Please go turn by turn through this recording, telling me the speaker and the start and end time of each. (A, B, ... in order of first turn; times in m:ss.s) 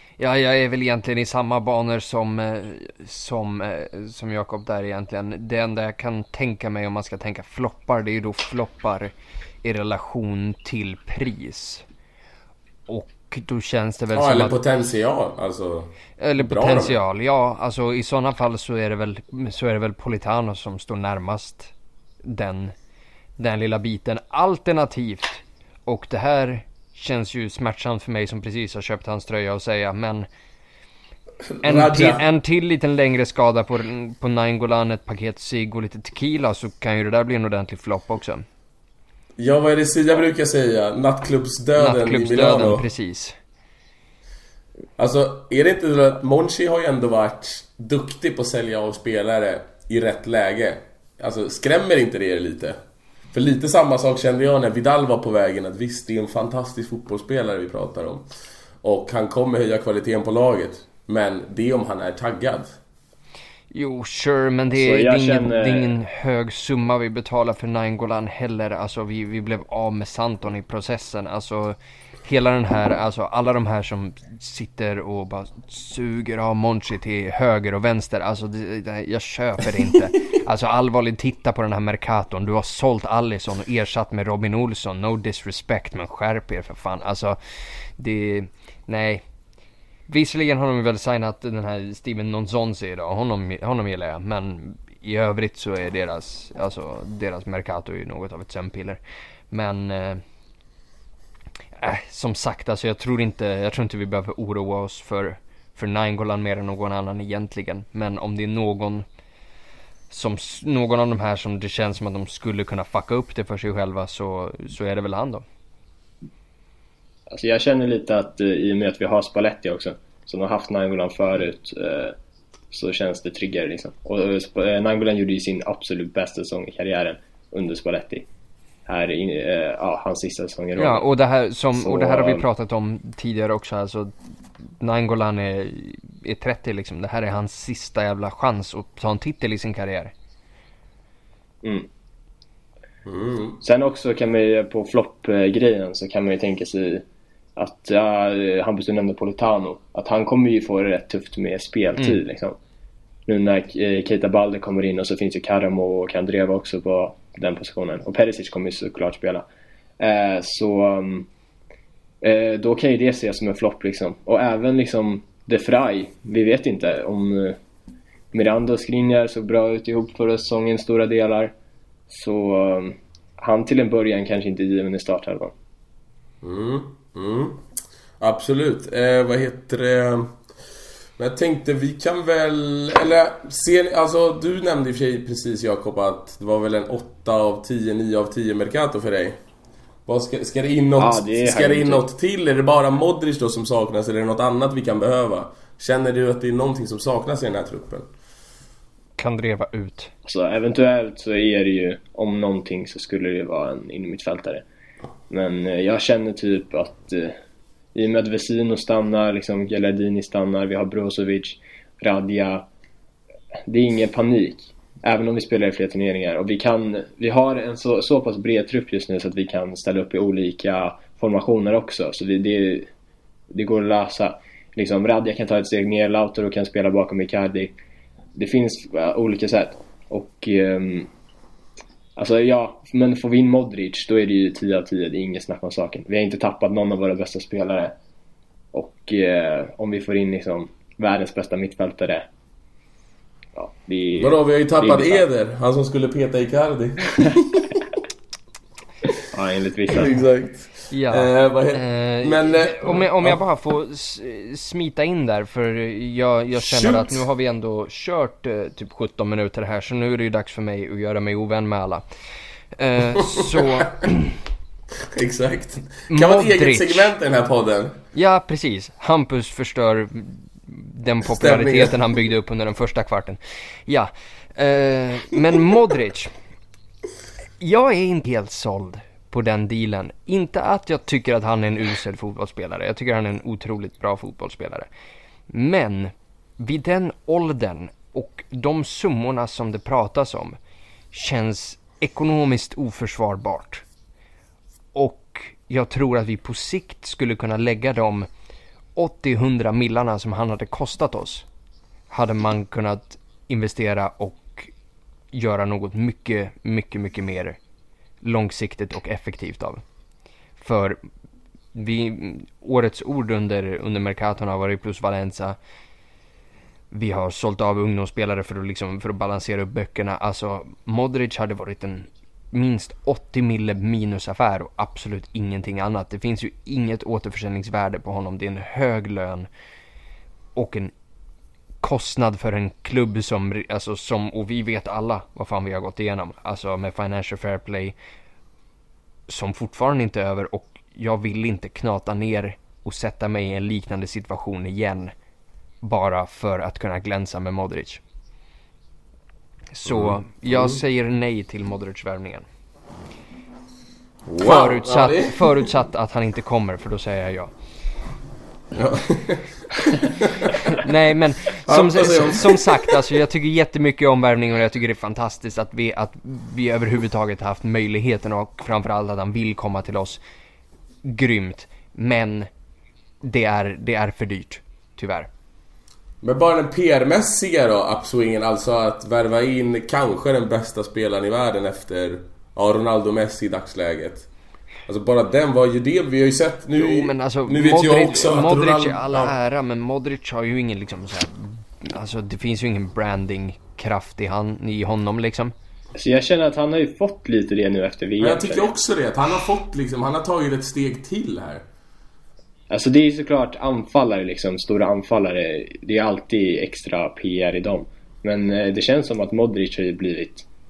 0:00.2-0:09.1 A
0:09.6-0:11.8 A
0:12.9-0:14.6 A
0:14.1-0:17.0 B
0:16.2-0:21.7 A
0:22.2-0:22.7 A
0:23.4-0:30.3 A
0:31.5-0:32.2 B
0:31.6-0:38.4 A
0:39.4-0:42.8 B
0:41.8-0:43.4 A
0:45.0-0:52.8 B
0:53.3-0:58.2 B
0:58.8-1:02.7 B
1:03.7-1:27.4 A
1:04.7-1:05.9 C
1:28.0-1:29.2 A
1:30.1-1:39.0 A
1:39.5-1:40.2 A
1:41.8-1:49.0 A
1:50.1-1:55.4 A
1:57.3-2:02.2 C
2:02.7-2:08.3 C
2:08.9-2:11.1 C
2:10.8-2:14.1 A
2:11.8-2:12.4 C
2:14.7-2:20.1 A
2:23.0-2:23.6 B
2:23.6-2:27.0 C
2:27.6-2:32.6 C
2:33.3-2:39.4 C
2:40.0-2:41.3 C
2:42.2-2:47.6 C
2:48.3-2:51.5 C
2:52.1-2:55.5 C
2:56.4-2:57.6 B
2:58.2-3:00.4 B
3:01.2-3:09.4 B
3:10.0-3:18.0 B
3:11.0-3:12.0 C
3:19.2-3:20.1 A
3:20.2-3:24.6 C
3:25.3-3:27.4 C
3:27.9-3:32.6 C
3:33.7-3:42.9 C
3:43.5-3:47.7 C
3:48.4-3:51.1 C
3:52.2-3:57.9 C
3:58.7-4:02.3 C
4:03.6-4:05.2 C
4:04.2-4:07.8 B
4:09.3-4:10.2 C
4:09.9-4:13.4 B
4:10.9-4:22.0 A
4:16.6-4:17.2 B
4:22.8-4:24.4 A
4:23.1-4:23.9 B
4:25.1-4:28.0 B
4:26.1-4:27.1 A
4:28.1-4:36.3 A
4:31.4-4:31.9 B
4:37.6-4:44.9 A
4:45.5-4:50.6 A
4:51.1-4:53.8 A
4:54.9-4:58.3 A
4:59.0-5:01.4 A
5:02.1-5:04.7 A
5:05.3-5:07.6 A
5:08.2-5:09.8 A
5:10.6-5:11.0 A
5:11.7-5:15.6 A
5:16.9-5:29.5 A
5:30.6-5:30.9 A
5:31.8-5:38.0 A
5:39.3-5:45.1 A
5:45.8-5:48.0 A
5:49.7-5:52.4 A
5:49.9-5:50.8 B
5:54.2-5:55.7 B
5:54.4-5:57.5 A
5:58.7-6:00.8 B
6:00.7-6:10.2 A
6:01.6-6:03.0 B
6:11.0-6:12.5 A
6:13.2-6:15.3 A
6:16.2-6:24.3 B
6:24.9-6:29.3 B
6:26.8-6:35.5 A
6:36.0-6:38.7 C
6:38.2-6:41.6 B
6:42.7-6:50.4 C